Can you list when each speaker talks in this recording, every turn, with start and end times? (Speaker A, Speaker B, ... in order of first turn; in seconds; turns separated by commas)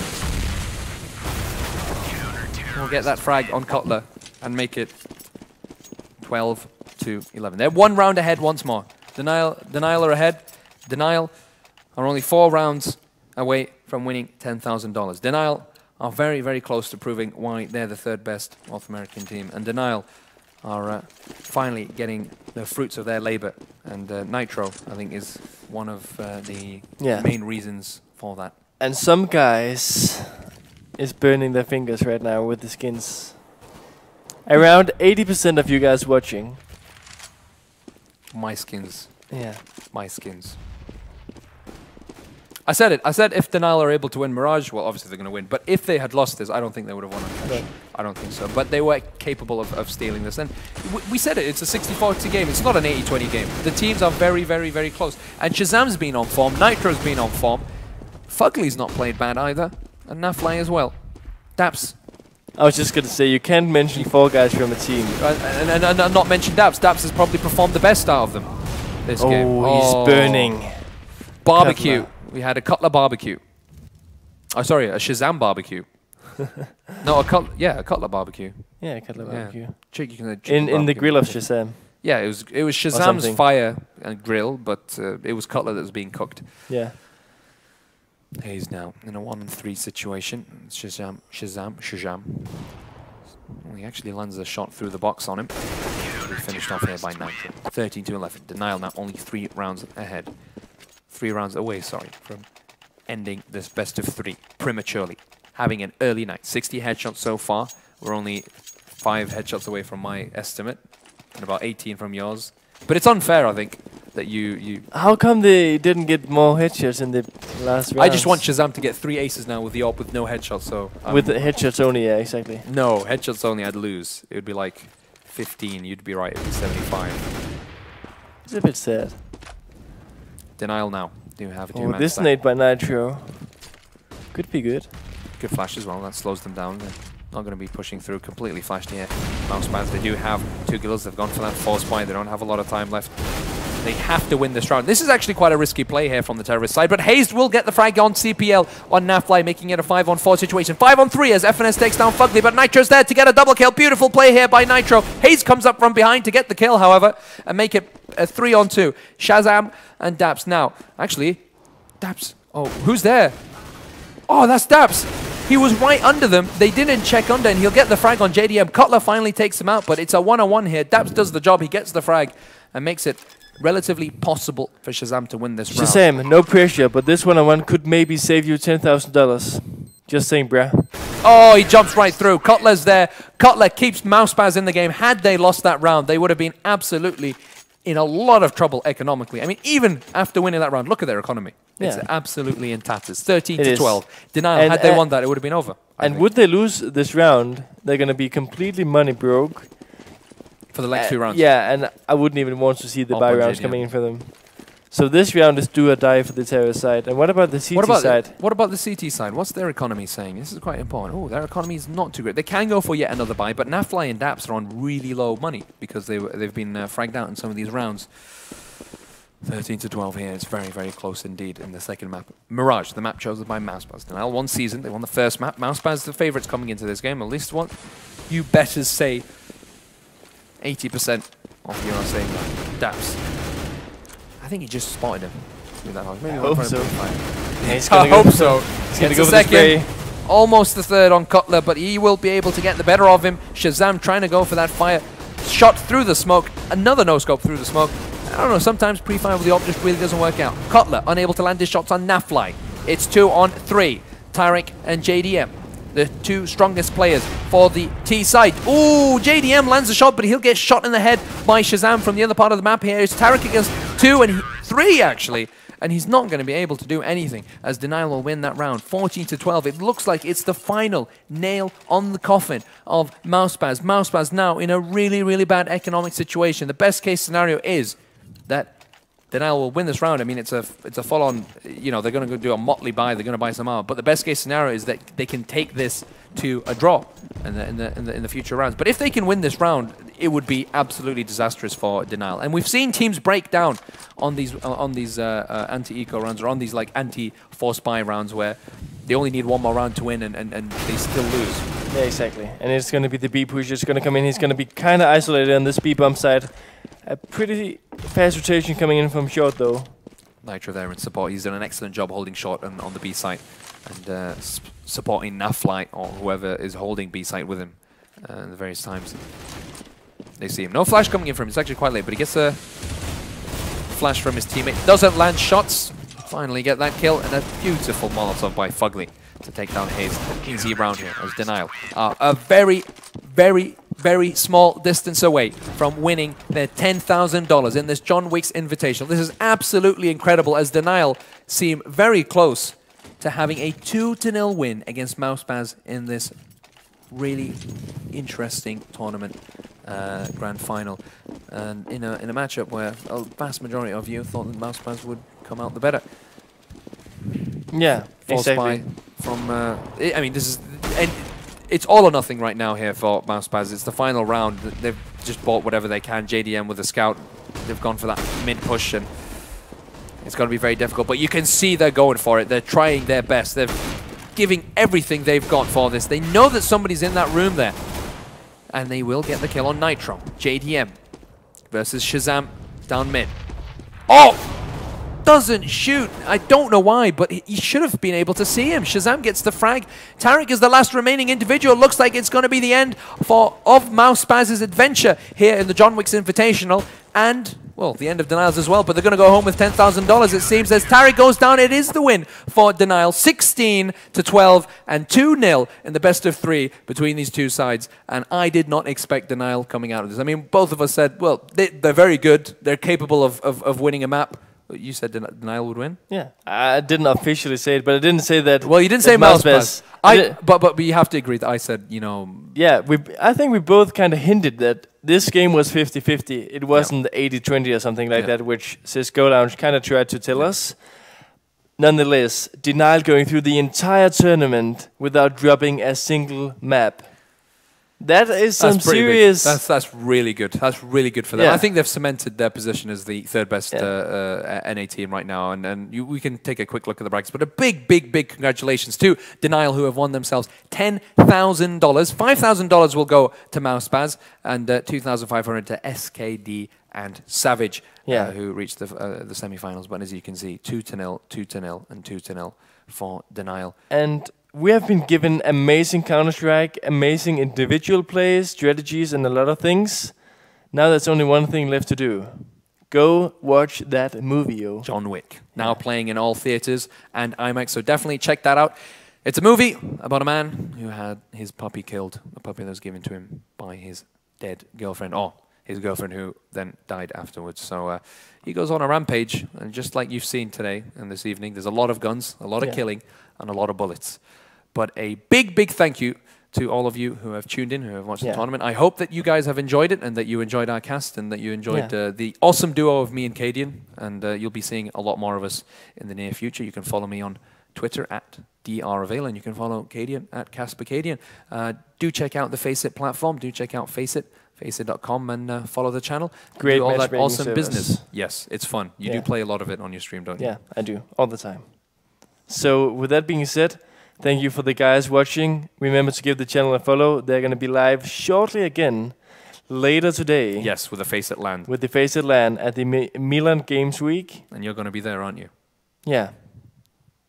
Speaker A: 2.6-5.0, Speaker A: 6.2-28.6, Speaker B: 27.0-27.3, Speaker B: 28.8-30.4, Speaker B: 30.9-33.6, Speaker B: 34.5-36.6, Speaker A: 38.3-40.6, Speaker B: 39.3-39.6, Speaker A: 42.7-57.7, Speaker B: 47.4-47.7, Speaker A: 58.2-62.0, Speaker B: 62.5-65.2, Speaker A: 65.2-74.0, Speaker B: 69.2-72.1, Speaker A: 74.5-86.7, Speaker B: 78.8-82.0, Speaker B: 82.9-83.4, Speaker B: 86.7-87.0, Speaker A: 88.4-93.0, Speaker A: 93.5-114.9, Speaker B: 114.9-118.5, Speaker A: 118.0-121.5, Speaker B: 121.1-122.7, Speaker A: 122.6-127.3, Speaker B: 128.4-129.2, Speaker A: 130.6-132.4, Speaker B: 131.7-134.9, Speaker A: 135.4-163.5, Speaker A: 164.3-176.0, Speaker B: 175.7-180.9, Speaker A: 181.2-196.3, Speaker B: 191.8-192.1, Speaker B: 193.6-200.1, Speaker A: 200.7-201.4, Speaker B: 200.9-208.3, Speaker A: 203.1-203.9, Speaker A: 207.7-218.7, Speaker A: 219.4-229.5, Speaker A: 230.6-233.5, Speaker A: 234.4-301.7, Speaker B: 236.3-239.9, Speaker B: 301.9-309.9, Speaker A: 310.4-319.9, Speaker A: 320.4-323.1, Speaker A: 323.9-356.6, Speaker B: 357.7-358.9, Speaker A: 358.2-369.7, Speaker A: 370.2-381.0, Speaker A: 381.7-383.3, Speaker A: 384.1-416.0, Speaker B: 416.1-420.4, Speaker A: 418.6-422.6, Speaker B: 422.5-431.1, Speaker A: 426.7-427.0, Speaker B: 431.8-439.6, Speaker A: 438.6-463.8, Speaker B: 441.3-441.7, Speaker B: 458.1-458.3, Speaker B: 463.9-475.8, Speaker A: 474.8-520.6, Speaker B: 492.6-492.8, Speaker B: 516.6-518.3, Speaker B: 519.0-519.4, Speaker B: 520.4-534.5, Speaker A: 530.6-531.7, Speaker A: 534.5-535.5, Speaker B: 536.0-537.0